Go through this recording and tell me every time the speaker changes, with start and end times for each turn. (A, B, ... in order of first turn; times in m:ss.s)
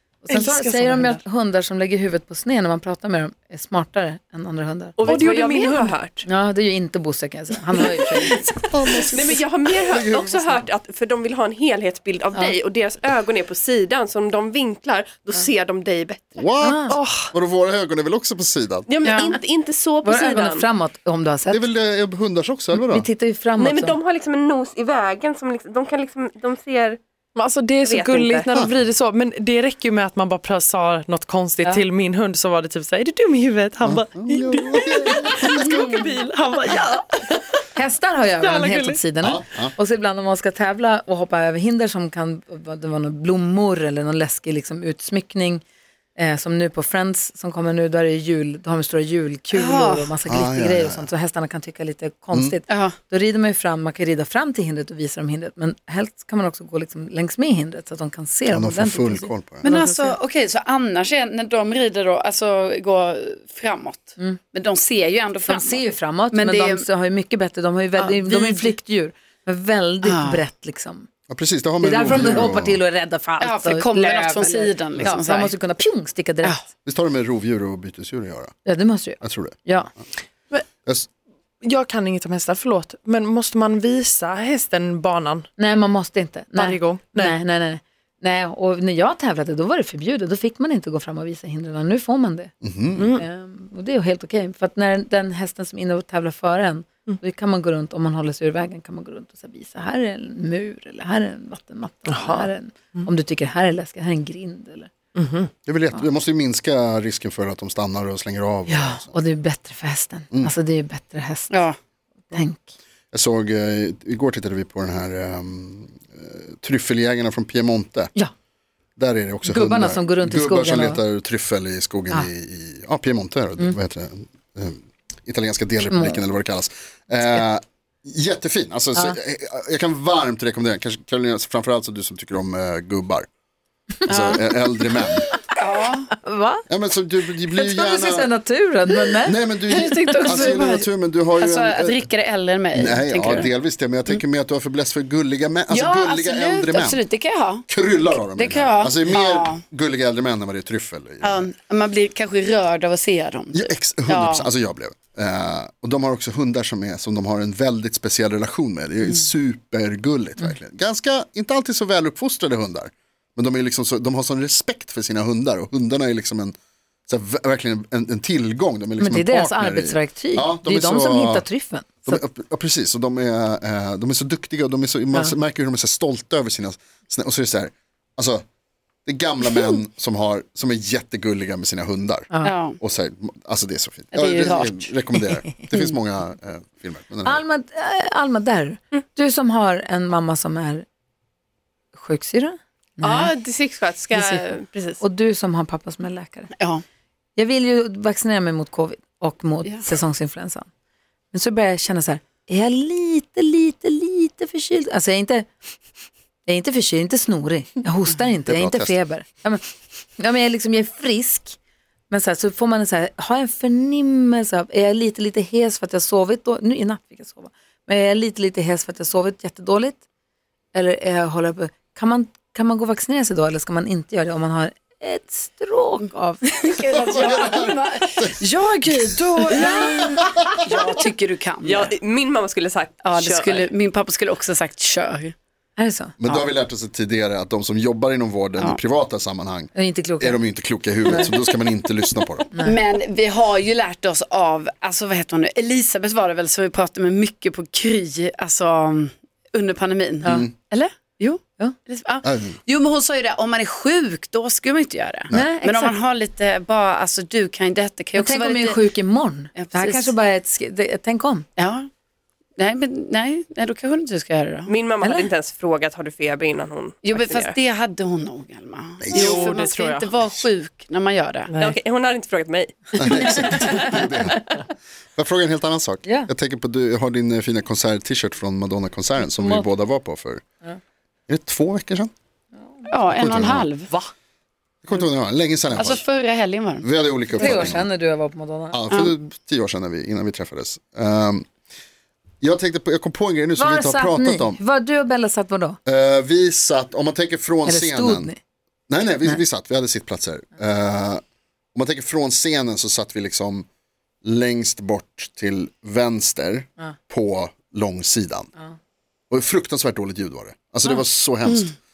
0:00.2-0:05.0 A
0:00.3-0:01.2 B
0:05.0-0:06.2 C
0:05.0-0:05.9 B
0:06.2-0:08.5 A
0:08.6-0:10.6 D
0:09.1-0:16.4 C
0:16.4-0:18.9 D
0:16.6-0:17.0 A
0:16.9-0:17.3 B
0:18.9-0:20.6 C
0:19.0-0:19.4 E
0:20.0-0:21.7 A
0:21.5-0:23.0 D
0:22.7-0:24.0 A
0:23.6-0:27.0 C
0:27.3-0:37.6 B
0:27.8-0:28.5 C
0:33.8-0:35.8 D
0:37.7-0:45.6 A
0:38.4-0:39.0 B
0:39.2-0:39.7 D
0:46.2-1:00.1 A
0:49.5-0:50.1 E
0:50.3-0:51.1 D
0:52.7-0:52.9 E
0:58.5-0:59.7 D
0:59.6-1:06.8 E
1:05.5-1:11.1 A
1:08.0-1:08.7 E
1:10.0-1:10.4 E
1:11.3-1:12.8 D
1:11.8-1:16.6 A
1:13.4-1:15.5 E
1:16.8-1:18.5 D
1:18.6-1:19.9 A
1:19.2-1:19.5 D
1:21.6-1:25.5 B
1:25.6-1:32.5 A
1:26.6-1:27.4 B
1:32.6-1:33.1 D
1:33.0-1:33.2 B
1:33.1-1:44.9 A
1:42.1-1:43.0 B
1:45.2-1:45.5 B
1:45.6-1:49.1 D
1:49.1-1:51.6 A
1:51.5-1:51.8 E
1:52.3-1:52.7 A
1:53.1-1:58.1 D
1:59.0-2:13.2 D
1:59.4-2:01.0 A
2:05.8-2:06.2 A
2:14.1-2:14.4 E
2:14.1-2:15.3 D
2:15.6-2:16.1 E
2:16.2-2:16.6 A
2:16.7-2:18.3 D
2:17.5-2:20.6 A
2:19.2-2:22.1 D
2:19.7-2:20.9 E
2:21.4-2:23.5 E
2:22.7-2:27.0 D
2:25.7-2:27.7 E
2:27.7-2:31.4 D
2:28.4-2:29.6 E
2:31.2-2:34.5 E
2:33.5-2:46.5 D
2:47.1-2:51.5 D
2:49.0-2:52.2 A
2:52.0-2:58.4 D
2:59.0-3:07.4 D
3:02.4-3:02.8 E
3:04.1-3:04.9 E
3:07.2-3:10.8 A
3:11.9-3:13.3 A
3:13.0-3:15.0 C
3:14.1-3:14.5 A
3:15.0-3:16.5 A
3:16.6-3:16.8 E
3:17.4-3:20.7 A
3:21.3-3:25.5 A
3:26.4-3:29.6 A
3:28.4-3:29.0 D
3:30.2-3:31.6 A
3:32.1-3:40.0 A
3:40.7-3:46.4 A
3:46.4-3:48.2 E
3:47.2-3:47.7 D
3:48.4-3:50.2 B
3:49.5-3:50.0 E
3:50.5-3:51.9 E
3:51.6-3:53.7 C
3:53.0-3:55.3 E
3:55.8-3:56.1 A
3:56.2-4:02.5 D
3:59.7-4:00.4 A
4:01.0-4:01.3 A
4:02.5-4:02.8 A
4:02.6-4:18.8 E
4:10.2-4:10.5 D
4:12.2-4:12.6 D
4:15.3-4:16.0 A
4:18.2-4:21.5 A
4:19.5-4:20.1 E
4:21.6-4:21.9 E
4:22.6-4:24.7 E
4:24.7-4:27.6 C
4:25.0-4:25.3 A
4:27.0-4:31.5 E
4:29.0-4:29.5 D
4:29.1-4:30.1 B
4:31.6-4:34.2 C
4:33.0-4:40.4 D
4:36.0-4:36.3 A
4:39.2-4:39.7 A
4:41.3-4:42.1 D
4:42.9-4:43.9 E
4:43.1-4:43.7 D
4:44.8-4:46.0 D
4:45.8-4:46.9 E
4:46.8-4:47.9 D
4:47.4-4:48.8 A
4:48.7-4:51.5 D
4:52.4-4:54.6 D
4:53.6-4:55.8 A
4:55.8-4:58.3 D
4:57.6-4:58.4 A
4:58.9-5:01.2 D
5:01.7-5:03.6 D
5:04.2-5:08.5 D
5:09.3-5:11.7 D